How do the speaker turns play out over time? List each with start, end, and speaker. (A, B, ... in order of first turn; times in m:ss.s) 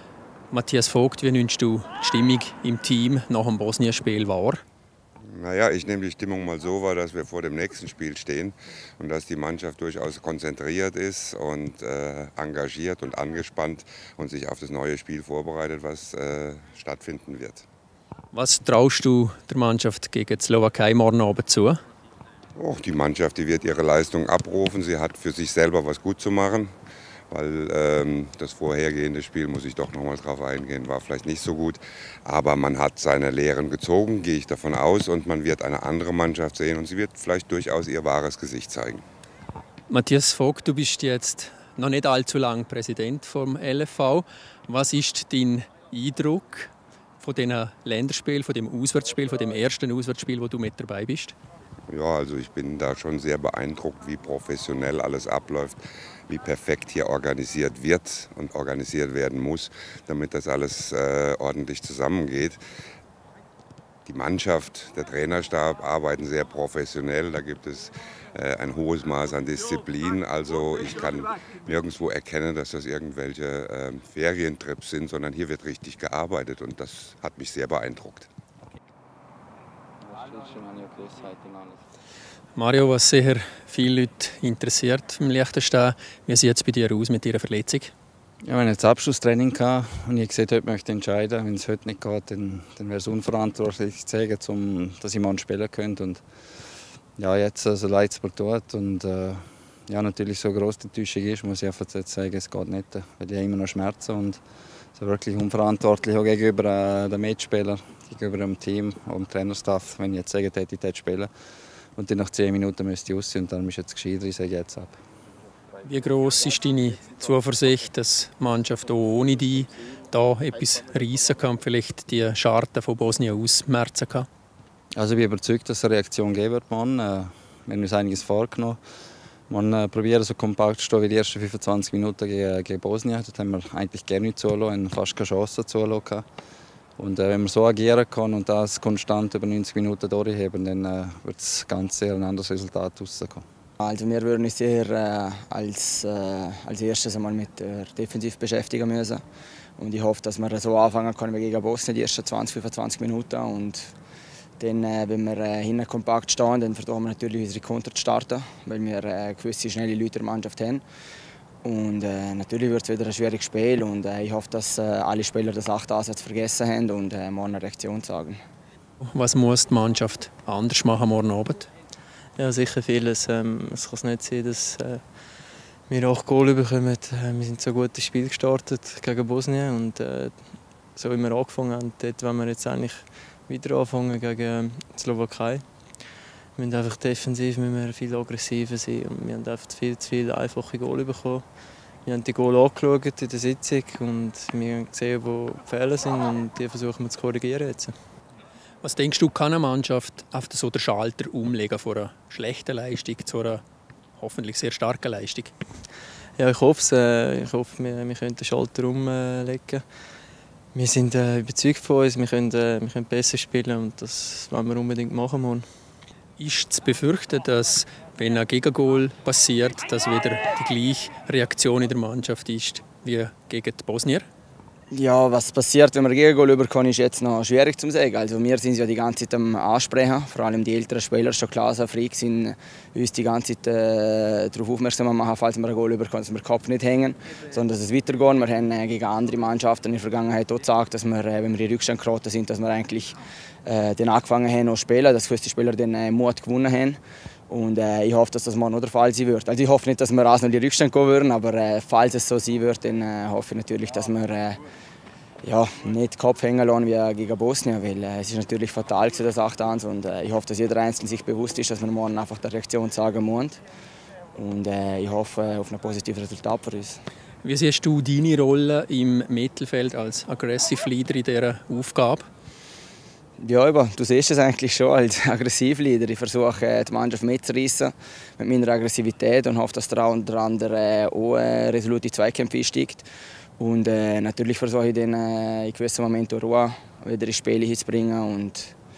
0:00.5-0:04.6 A
0:05.3-0:17.7 B
0:18.3-0:21.8 A
0:22.6-0:26.7 B
0:27.3-0:39.0 B
0:39.9-0:51.4 A
0:51.9-1:02.6 B
1:04.1-1:18.3 B
1:20.0-1:21.8 C
1:22.6-1:27.9 A
1:28.4-1:36.2 C
1:37.2-1:44.4 C
1:45.0-1:51.3 C
1:52.0-1:55.0 C
1:55.8-2:04.3 A
2:05.0-2:08.8 C
2:09.5-2:16.2 C
2:17.0-2:23.4 C
2:23.8-2:29.2 D
2:29.8-2:33.9 D
2:34.6-2:40.8 D
2:41.6-2:48.4 D
2:49.0-2:51.7 A
2:52.4-2:55.0 E
2:55.9-3:00.4 E
3:01.0-3:05.6 E
3:06.6-3:11.5 E
3:12.0-3:17.9 E
3:18.8-3:23.6 A
3:24.2-3:25.5 A
3:26.4-3:29.8 E
3:30.7-3:35.7 E
3:36.4-3:44.3 A
3:44.9-4:14.6 D
4:15.4-4:23.6 D
4:24.4-4:27.0 D
4:27.4-4:32.3 A
4:33.4-4:43.1 D
4:43.6-4:48.7 D